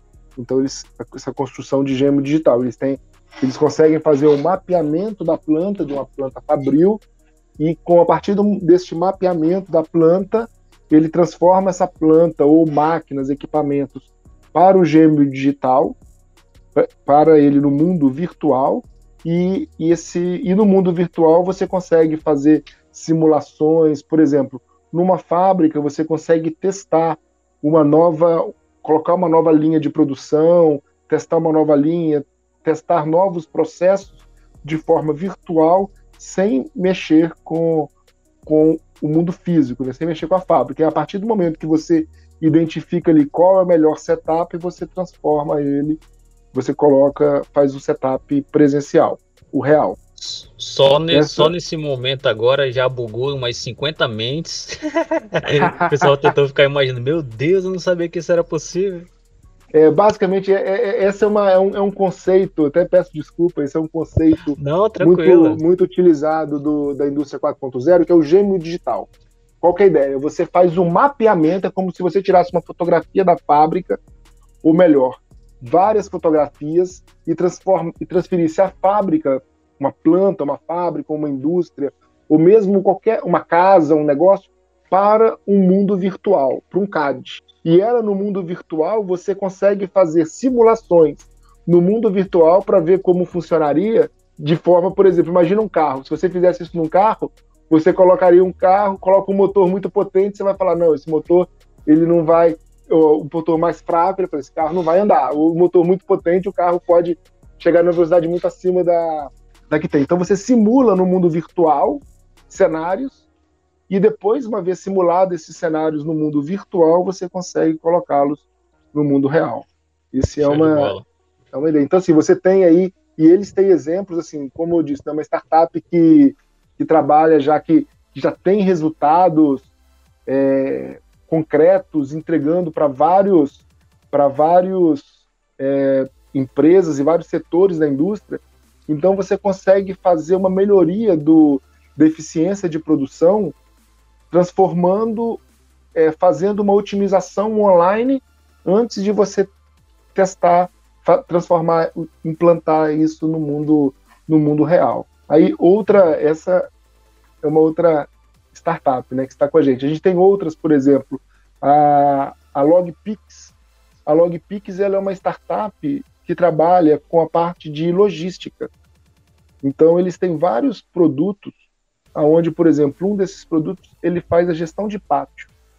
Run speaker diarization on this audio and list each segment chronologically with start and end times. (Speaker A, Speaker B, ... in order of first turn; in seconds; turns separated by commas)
Speaker A: 0.3-7.0, Speaker A: 7.6-16.0, Speaker A: 16.7-37.9, Speaker A: 38.4-46.0, Speaker A: 46.5-50.0, Speaker B: 50.2-59.1, Speaker A: 51.1-51.5, Speaker A: 55.6-56.3, Speaker A: 59.7-69.1, Speaker B: 64.5-65.6, Speaker A: 69.6-74.0, Speaker A: 74.6-113.2, Speaker A: 113.9-120.9, Speaker B: 120.4-121.0, Speaker A: 121.5-129.7, Speaker A: 130.3-143.6, Speaker A: 144.3-145.4, Speaker A: 145.9-149.5, Speaker A: 150.1-156.7, Speaker A: 157.4-163.5, Speaker A: 164.1-168.7, Speaker A: 169.6-171.6, Speaker A: 172.1-175.5